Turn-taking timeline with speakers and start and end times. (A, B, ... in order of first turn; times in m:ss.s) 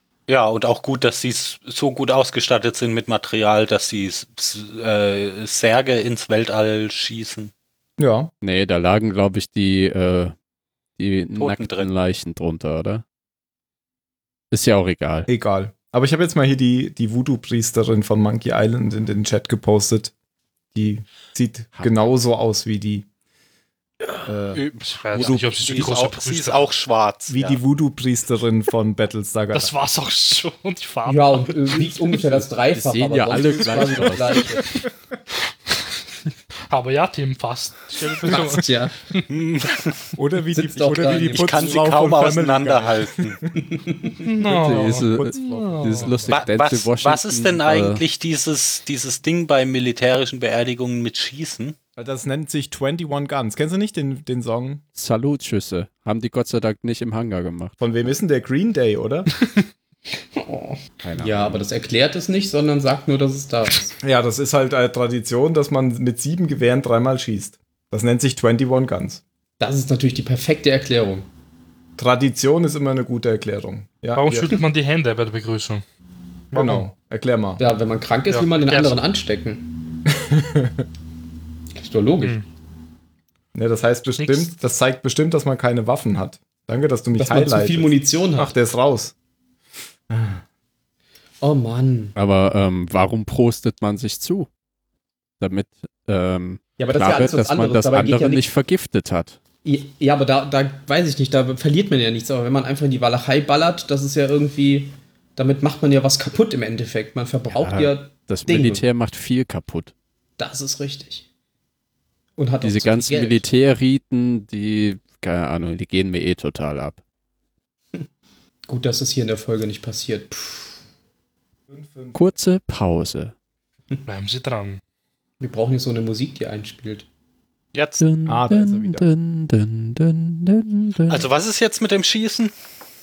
0:00.3-0:07.5 A
0:08.0-0:08.3 B
0:08.4-0:10.3 C
0:11.0-0:13.0 C
0:11.4-0:11.9 A
0:14.5-0:15.3 C
0:15.3-0:20.1 B
0:20.7-0:23.1 B
0:24.2-0:24.6 B
0:24.5-0:27.6 A
0:24.9-0:26.7 D
0:25.2-0:25.4 B
0:27.3-0:29.7 B
0:29.5-0:31.8 D
0:31.1-0:34.7 E
0:32.2-0:34.6 C
0:36.7-0:39.3 D
0:38.3-0:39.0 E
0:39.3-0:40.1 A
0:40.2-0:43.5 B
0:40.5-0:41.8 E
0:41.2-0:43.4 A
0:43.6-0:44.2 E
0:44.2-0:46.3 D
0:44.4-0:48.0 C
0:45.1-0:46.4 B
0:46.3-0:51.8 A
0:52.0-0:54.8 B
0:55.0-0:57.8 C
0:57.8-0:59.3 B
1:00.3-1:04.0 E
1:01.0-1:01.7 C
1:04.0-1:09.2 B
1:09.6-1:11.3 E
1:12.0-1:14.6 B
1:14.2-1:15.8 D
1:16.5-1:16.9 D
1:16.5-1:17.6 B
1:17.6-1:19.7 E
1:18.3-1:19.0 D
1:20.1-1:20.9 B
1:21.8-1:22.4 E
1:23.6-1:29.2 B
1:24.2-1:24.5 D
1:27.2-1:28.6 E
1:30.1-1:30.4 B
1:31.4-1:32.2 E
1:32.2-1:34.5 C
1:35.4-1:39.4 C
1:36.8-1:38.4 E
1:39.6-1:48.8 E
1:47.5-1:49.9 C
1:50.4-1:51.3 E
1:52.4-1:53.4 E
1:52.6-1:57.0 C
1:58.7-2:00.8 E
2:01.7-2:02.3 B
2:02.1-2:03.3 C
2:04.1-2:04.8 D
2:05.4-2:07.1 E
2:07.7-2:08.0 A
2:08.0-2:11.3 C
2:08.3-2:09.1 B
2:11.1-2:12.5 A